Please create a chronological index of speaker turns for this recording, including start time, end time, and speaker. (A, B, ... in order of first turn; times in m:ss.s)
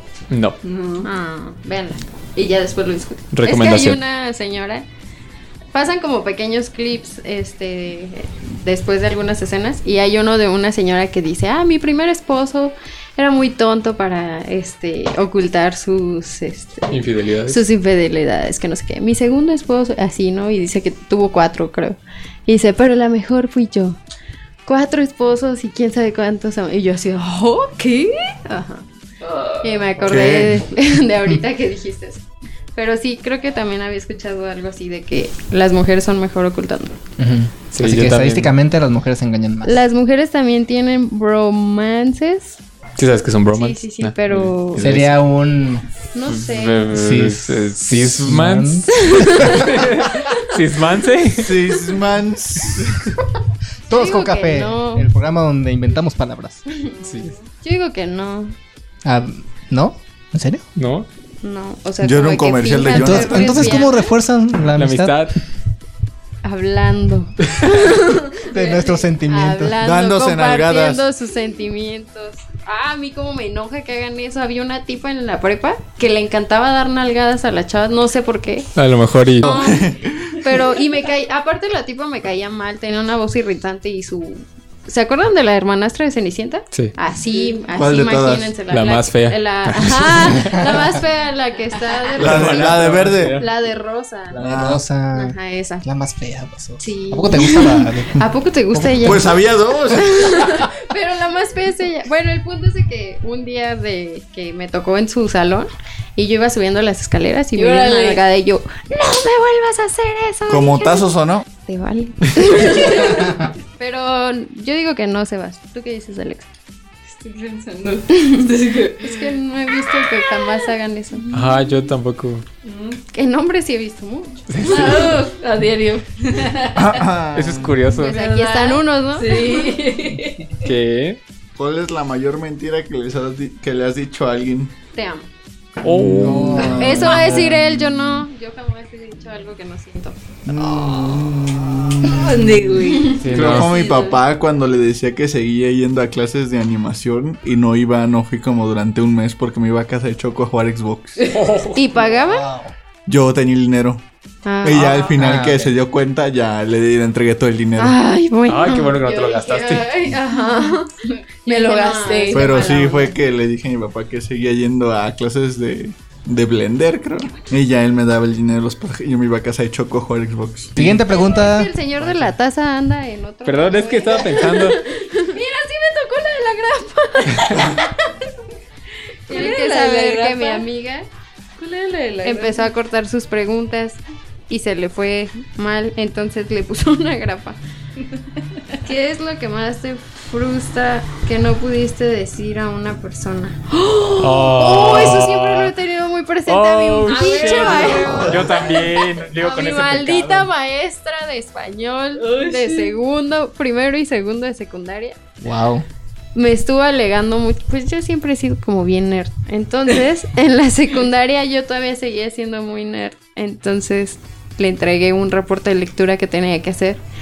0:00.3-0:00.6 A
0:00.6-0:01.1 B
0:01.0-0:04.9 C
0:03.3-0:04.0 A
0:05.7-0:24.0 C
0:16.9-0:17.6 A
0:24.6-0:28.9 C
0:29.2-0:29.8 B
0:29.6-0:32.2 C
0:30.0-0:30.6 D
0:32.7-0:37.0 C
0:37.2-0:39.8 E
0:37.7-0:38.5 A
0:39.6-0:42.6 C
0:43.0-0:45.2 A
0:43.5-0:44.9 C
0:44.8-0:45.8 E
0:46.1-0:46.9 C
0:46.3-0:51.6 A
0:46.9-0:49.9 E
0:48.9-0:49.7 C
0:51.3-0:53.0 D
0:53.9-0:56.6 E
0:53.9-0:55.1 C
0:57.0-0:57.4 A
0:57.6-0:58.6 C
0:59.0-1:00.6 E
1:00.8-1:01.1 A
1:01.4-1:04.1 C
1:02.0-1:03.9 D
1:02.9-1:05.2 E
1:04.8-1:05.4 A
1:06.4-1:18.7 C
1:08.5-1:09.8 E
1:09.8-1:11.0 D
1:18.7-1:19.6 A
1:19.4-1:20.6 D
1:19.4-1:34.4 C
1:27.7-1:28.6 D
1:28.7-1:30.8 A
1:32.2-1:33.5 A
1:32.2-1:33.4 D
1:34.4-1:34.8 D
1:34.4-1:39.2 E
1:35.1-1:35.8 C
1:36.8-1:56.5 C
1:39.0-1:40.6 D
1:47.5-1:48.2 B
1:50.5-1:51.4 D
1:52.6-1:53.2 B
1:57.1-1:59.3 B
1:58.1-2:01.3 C
2:00.4-2:00.6 B
2:01.2-2:01.8 B
2:01.3-2:02.4 A
2:02.6-2:03.0 B
2:03.1-2:05.0 C
2:04.5-2:05.2 A
2:04.6-2:07.0 B
2:06.7-2:07.9 D
2:07.3-2:08.2 A
2:08.0-2:09.9 C
2:08.0-2:10.7 B
2:10.6-2:11.2 A
2:11.6-2:14.7 D
2:14.9-2:15.3 C
2:15.8-2:17.4 A
2:15.8-2:17.2 D
2:16.2-2:17.4 E
2:16.7-2:20.2 C
2:20.4-2:22.8 D
2:22.0-2:24.2 B
2:23.2-2:23.7 A
2:23.3-2:31.3 D
2:31.3-2:31.8 A
2:31.7-2:32.5 C
2:32.0-2:32.7 E
2:33.0-2:34.0 D
2:34.4-2:35.1 C
2:34.6-2:38.0 D
2:34.7-2:35.7 E
2:37.8-2:43.1 C
2:38.4-2:40.1 A
2:40.3-2:40.8 B
2:41.4-2:42.9 B
2:42.3-2:51.0 D
2:50.8-2:52.3 E
2:51.0-2:58.2 C
2:53.4-2:54.8 A
2:59.3-3:01.1 C
2:59.3-3:00.6 B
3:01.6-3:02.7 B
3:02.2-3:07.6 C
3:08.1-3:08.8 B
3:08.8-3:25.2 C
3:14.2-3:15.7 A
3:16.5-3:20.5 A
3:17.1-3:18.8 B
3:18.0-3:18.4 D
3:22.2-3:22.9 B
3:25.4-3:25.9 E
3:26.3-3:37.0 C